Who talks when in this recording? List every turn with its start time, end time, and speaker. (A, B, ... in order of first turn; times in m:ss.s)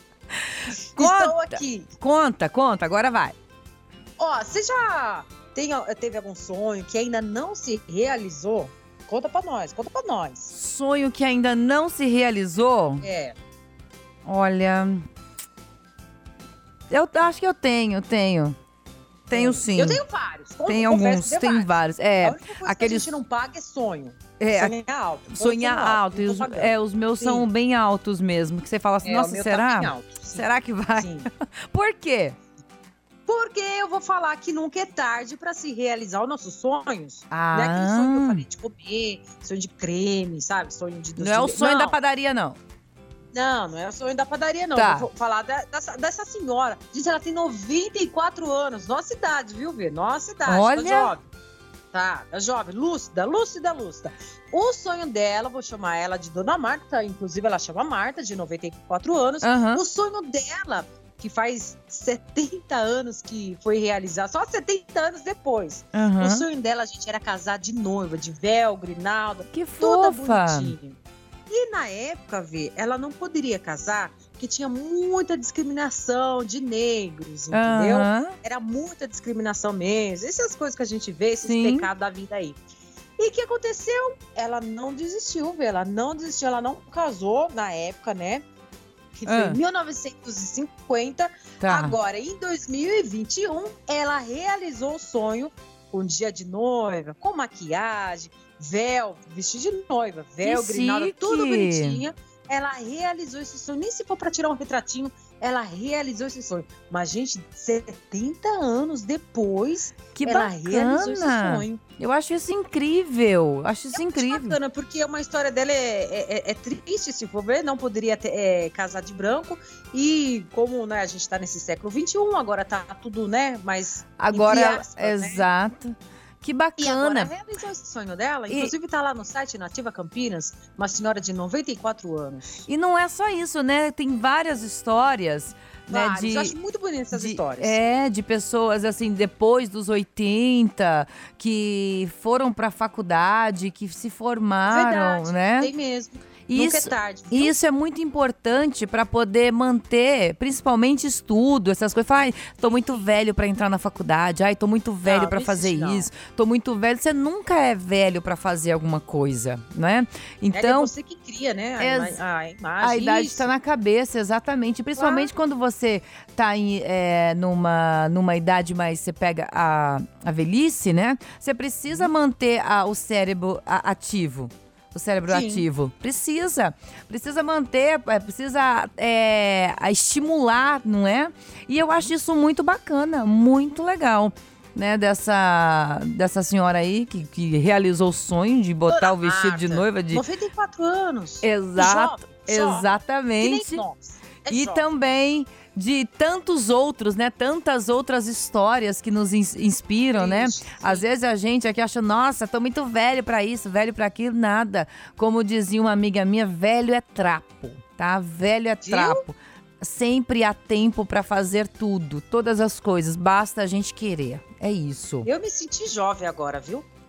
0:00.3-0:03.4 A
0:01.0-0:01.9 B
0:04.2-0:10.5 B
0:10.5-0:13.0 A
0:13.0-0:13.4 B
0:14.3-0:15.0 A
0:16.9-0:18.6 A
0:19.3-0:20.0 A
0:19.3-0:27.5 B
0:20.7-0:23.2 A
0:24.4-0:24.8 A
0:25.3-0:32.4 A
0:29.0-0:31.3 B
0:33.3-0:42.0 B
0:37.3-0:38.4 A
0:41.2-0:42.6 A
0:43.3-0:51.3 B
0:44.8-0:45.1 A
0:50.5-0:51.1 A
0:51.9-1:22.6 B
0:59.4-0:59.8 A
1:05.9-1:06.4 A
1:09.5-1:10.7 A
1:17.5-1:18.4 A
1:21.4-1:21.9 A
1:23.2-1:28.5 B
1:29.2-1:51.8 B
1:29.3-1:29.6 A
1:31.6-1:32.0 A
1:40.4-1:42.0 A
1:50.2-1:54.6 A
1:53.9-2:05.5 B
2:04.2-2:07.3 A
2:06.8-2:12.7 B
2:12.7-2:16.6 A
2:15.9-2:17.8 B
2:17.1-2:25.7 A
2:24.7-2:27.5 B
2:26.5-2:40.9 A
2:35.0-2:36.1 B
2:40.5-2:43.5 B
2:41.8-2:42.2 A
2:42.8-3:10.2 A
2:45.0-2:45.3 B
2:55.3-2:55.7 B
3:08.9-3:14.9 B
3:11.4-3:13.8 A
3:14.5-3:35.3 A
3:20.2-3:21.1 B
3:28.8-3:29.2 B
3:35.2-3:36.9 B